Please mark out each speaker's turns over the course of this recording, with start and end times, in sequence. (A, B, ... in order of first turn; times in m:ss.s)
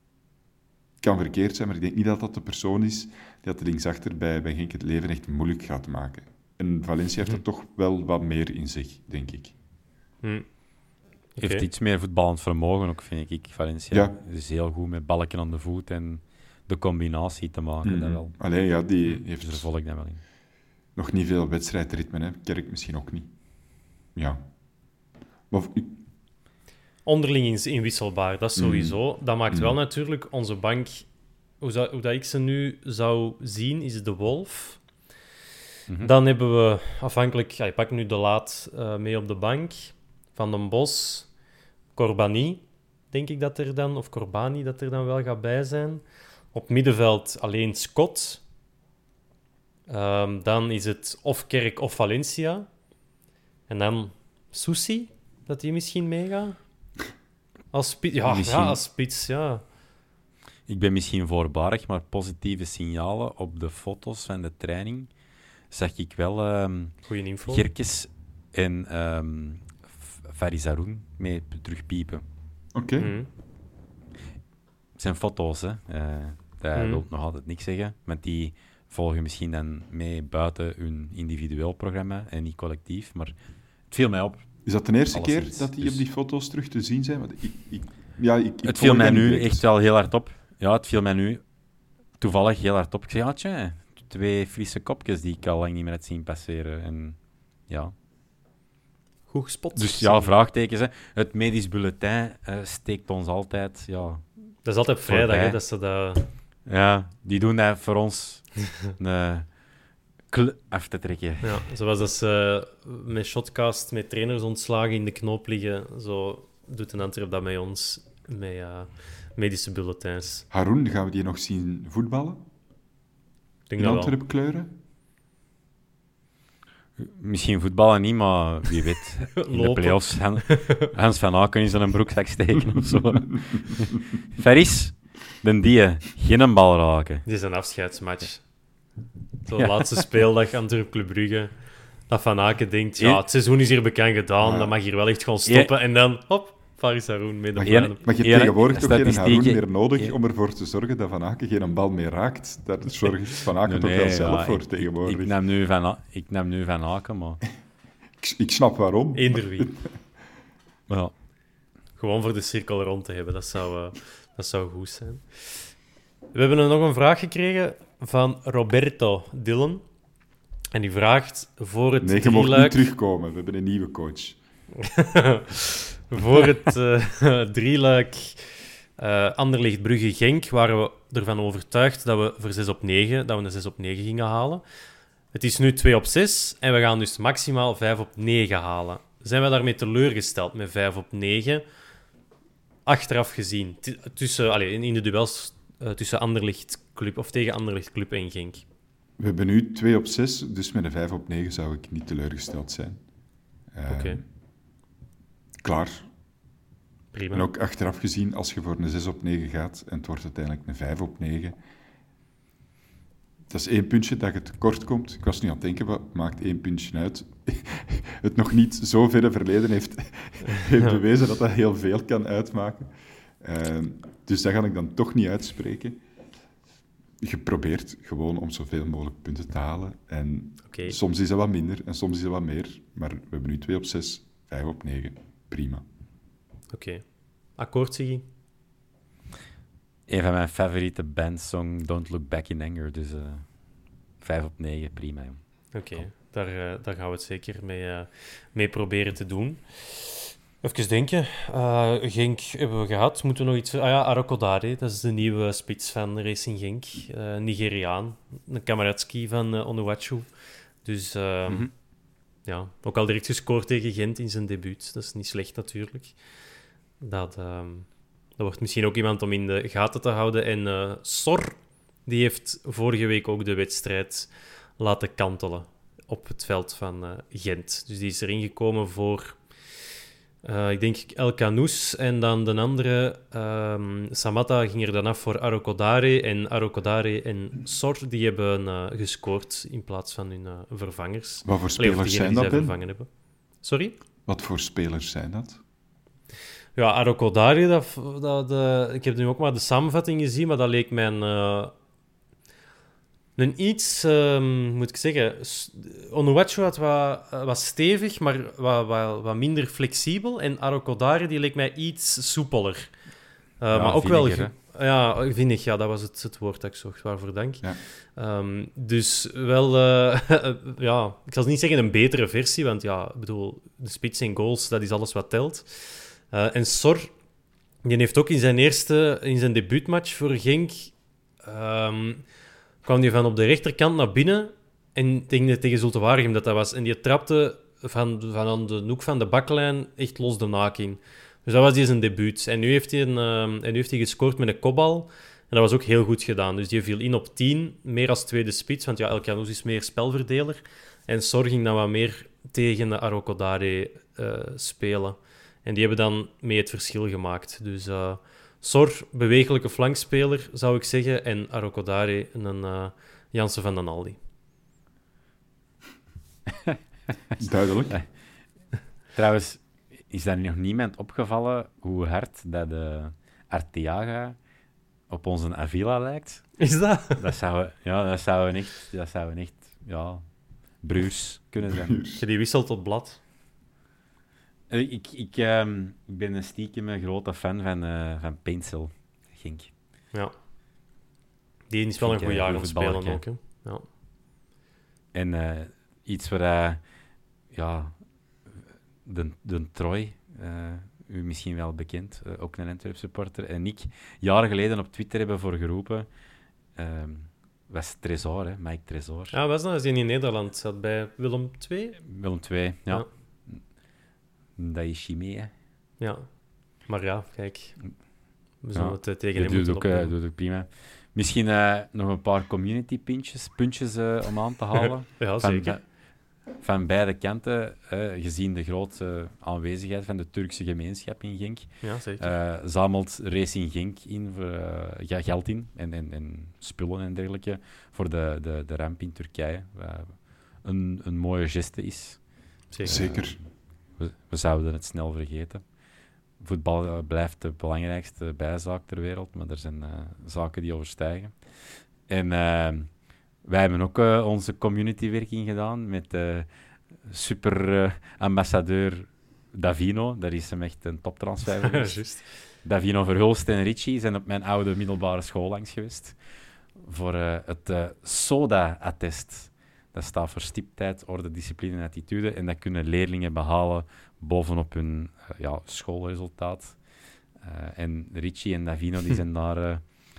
0:01.0-0:09.5 A
0:11.4-0:11.7 B
0:11.4-0:18.4 C
0:13.9-0:14.2 A
0:17.8-0:19.7 A
0:19.1-0:20.2 C
0:21.0-0:23.3 A
0:24.2-0:24.5 A
0:25.5-0:26.0 A
0:27.0-0:31.1 B
0:28.6-0:29.8 A
0:31.6-0:34.8 B
0:35.9-0:36.1 C
0:36.0-0:41.3 B
0:42.0-0:48.4 B
0:49.9-0:52.7 B
0:53.7-0:56.6 B
0:57.7-0:59.6 B
0:58.2-0:58.8 C
1:00.7-1:05.1 C
1:05.7-1:12.2 C
1:07.1-1:07.7 B
1:12.7-1:13.1 A
1:13.0-1:13.3 B
1:15.0-1:23.3 C
1:16.8-1:17.0 B
1:23.9-1:24.6 C
1:24.7-1:29.6 A
1:25.1-1:26.0 C
1:28.6-1:31.4 C
1:32.2-1:37.2 C
1:37.7-1:37.9 C
1:39.3-1:40.3 B
1:39.8-1:44.3 C
1:44.6-1:46.3 B
1:45.1-1:45.6 C
1:46.7-1:49.5 C
1:50.3-1:51.6 C
1:51.4-2:00.4 B
2:00.5-2:02.4 A
2:03.7-2:04.2 B
2:03.8-2:04.7 A
2:07.0-2:17.2 C
2:09.4-2:10.7 B
2:17.3-2:18.4 B
2:19.5-2:21.5 B
2:22.1-2:28.0 B
2:24.4-2:24.7 A
2:25.5-2:25.7 C
2:27.6-2:30.2 C
2:27.7-2:35.4 A
2:33.6-2:37.4 C
2:38.2-2:39.9 A
2:39.2-2:39.7 B
2:42.0-2:45.7 B
2:46.3-2:49.8 B
2:50.7-2:52.8 B
2:52.0-2:54.4 A
2:54.8-3:04.6 B
3:05.3-3:11.6 B
3:12.9-3:18.6 B
3:19.2-3:23.0 A
3:23.7-3:24.2 A
3:23.9-3:24.2 B
3:25.6-3:26.1 A
3:27.1-3:27.5 B
3:27.3-3:31.6 A
3:33.5-3:46.0 A
3:40.6-3:41.0 B
3:47.2-3:55.8 A
3:50.7-3:51.0 B
3:56.7-3:57.0 B
3:57.6-3:58.2 B
4:00.1-4:03.5 C
4:04.2-4:05.4 C
4:05.7-4:20.3 B
4:20.8-4:21.7 B
4:22.4-4:26.2 B
4:27.0-4:39.4 B
4:40.4-4:53.1 B
4:51.4-4:52.8 A
4:53.6-4:54.0 B
4:54.3-4:55.6 A
4:56.8-5:01.7 B
5:03.4-5:13.0 B
5:13.6-5:27.1 B
5:13.7-5:14.5 C
5:27.8-5:32.2 B
5:32.8-6:04.2 B
6:07.4-6:08.0 A
6:09.1-6:14.4 C
6:15.1-6:20.2 C
6:16.6-6:17.2 B
6:20.8-6:22.0 C
6:21.6-6:22.2 A
6:22.2-6:23.2 B
6:24.7-6:29.7 C
6:31.7-6:33.8 B
6:32.0-6:33.2 C
6:35.1-6:36.8 C
6:37.5-6:38.0 C
6:39.0-6:46.1 C
6:46.8-6:49.4 C
6:49.3-6:52.0 B
6:52.0-6:53.6 C
6:54.6-6:55.5 C
6:56.0-6:56.3 B
6:56.9-6:57.8 B
6:58.6-7:00.1 B
6:58.7-7:05.9 C
7:05.2-7:05.8 B
7:06.6-7:22.2 C
7:11.8-7:12.3 B
7:22.7-7:23.0 B
7:22.8-7:23.4 C
7:22.8-7:23.4 A
7:24.0-7:25.6 C
7:26.4-7:31.4 C
7:32.1-7:36.5 C
7:37.0-7:46.2 C
7:41.6-7:42.3 B
7:46.8-7:56.8 C
7:57.4-7:59.9 C